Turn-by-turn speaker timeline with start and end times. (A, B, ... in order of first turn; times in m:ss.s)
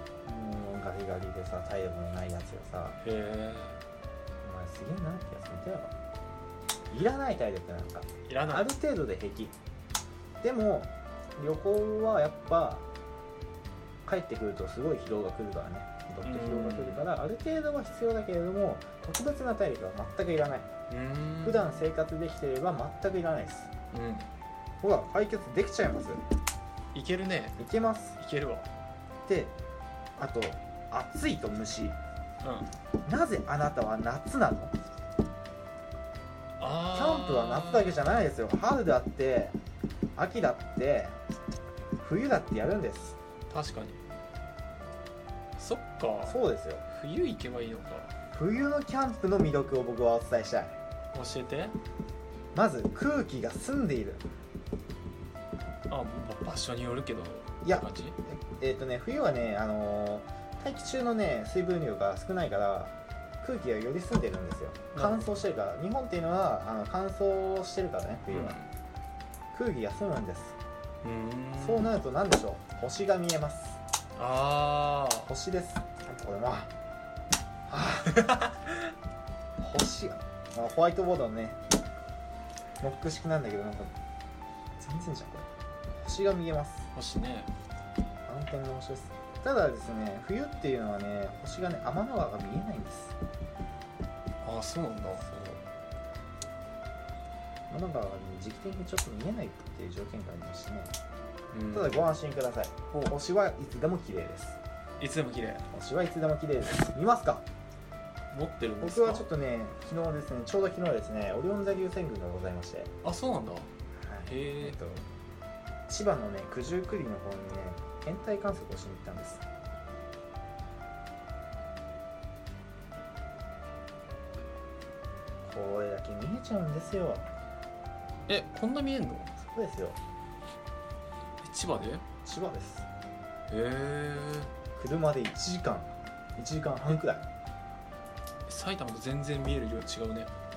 0:00.2-0:03.0 A
0:03.0-0:03.8 B
0:04.4-0:05.9 A
0:06.9-0:09.6 A
0:08.3-0:08.7 B
0:10.4-0:12.8 A
0:14.1-0:20.7 A
0:16.2-0:17.0 B
0:20.9-0:21.8 B
0:21.4-0:23.7 A
0:23.9-0:24.3 B
0:24.8-0:26.2 A
0:26.9-0:27.6 B
0:27.6-0:28.2 A
0:28.2-0:28.7 B
0:29.2-0:29.5 A
0:30.2-0:32.0 A
0:32.4-0:32.7 B
0:33.1-0:34.8 A
0:36.6-0:38.3 B
0:36.9-0:39.6 A
0:40.2-0:41.2 A
0:42.0-0:43.2 A
0:43.5-0:44.0 B
0:45.6-0:48.1 B
0:46.2-0:46.8 A
0:48.3-0:50.8 A
0:51.1-0:51.8 B
0:52.6-0:54.2 A
0:55.9-0:58.2 B
0:57.6-1:08.6 A
1:05.0-1:05.4 B
1:08.3-1:08.7 B
1:09.5-1:10.6 A
1:11.0-1:12.0 B
1:11.6-1:13.8 A
1:14.2-1:15.3 B
1:15.2-1:16.7 A
1:17.7-1:18.3 A
1:18.1-1:18.8 B
1:19.6-1:21.6 A
1:22.8-1:23.9 A
1:24.8-1:26.9 A
1:26.9-1:27.5 B
1:28.2-1:33.2 A
1:34.4-1:35.3 B
1:35.2-1:35.6 A
1:37.7-1:40.9 A
1:41.5-1:42.1 B
1:41.7-1:44.6 A
1:45.0-1:45.6 B
1:45.7-1:47.4 A
1:48.3-1:49.3 B
1:48.8-1:52.9 A
1:53.0-1:53.7 B
1:54.0-1:55.1 A
1:54.3-1:54.8 B
1:55.9-1:59.4 A
2:05.4-2:07.3 A
2:08.3-2:09.3 B
2:09.4-2:10.0 A
2:11.4-2:12.0 B
2:12.2-2:12.9 A
2:13.5-2:14.5 B
2:14.8-2:17.2 A
2:18.5-2:20.3 B